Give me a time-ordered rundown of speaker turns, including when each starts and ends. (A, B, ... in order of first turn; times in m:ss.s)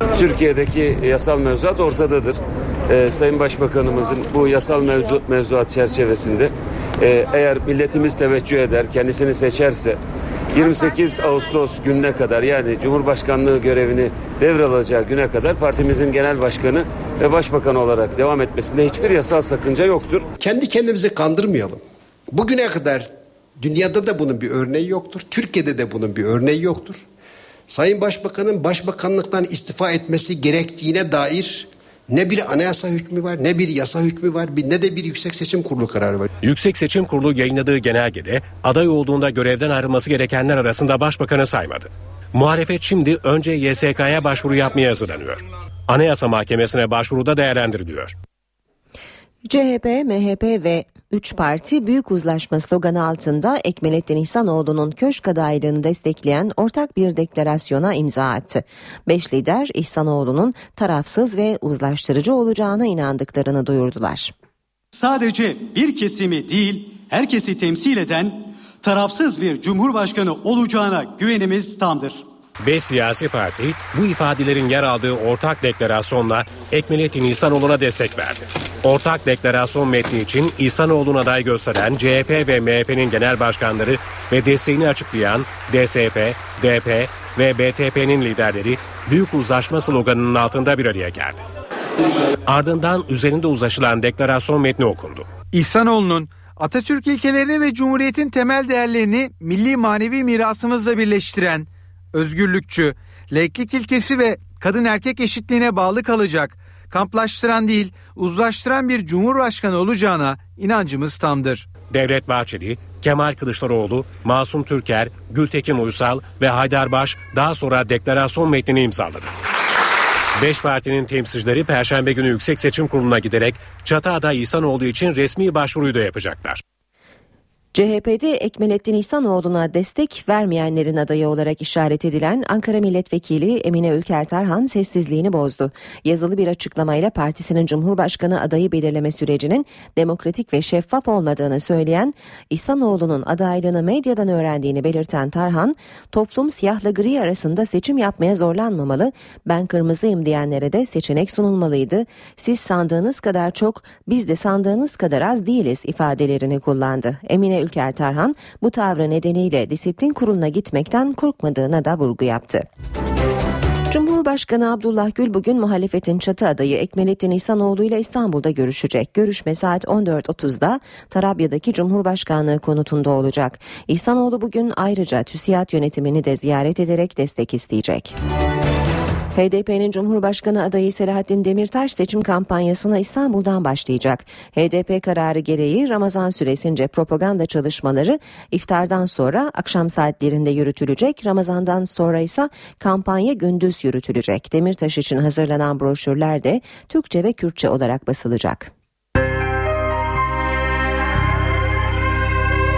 0:00.1-0:10.0 A
0:10.5-0:20.2 A
0:20.4-0:27.0 B
0:27.7-0:36.3 B
0:36.4-0:48.1 C
0:49.4-1:04.3 D
1:04.9-1:12.2 E
1:12.6-1:31.4 C
1:32.4-1:35.3 C
1:35.5-1:51.6 F
1:51.9-1:59.3 C
2:00.4-2:06.6 C
2:07.7-2:42.6 D
2:43.9-2:58.2 D
2:59.3-3:18.7 D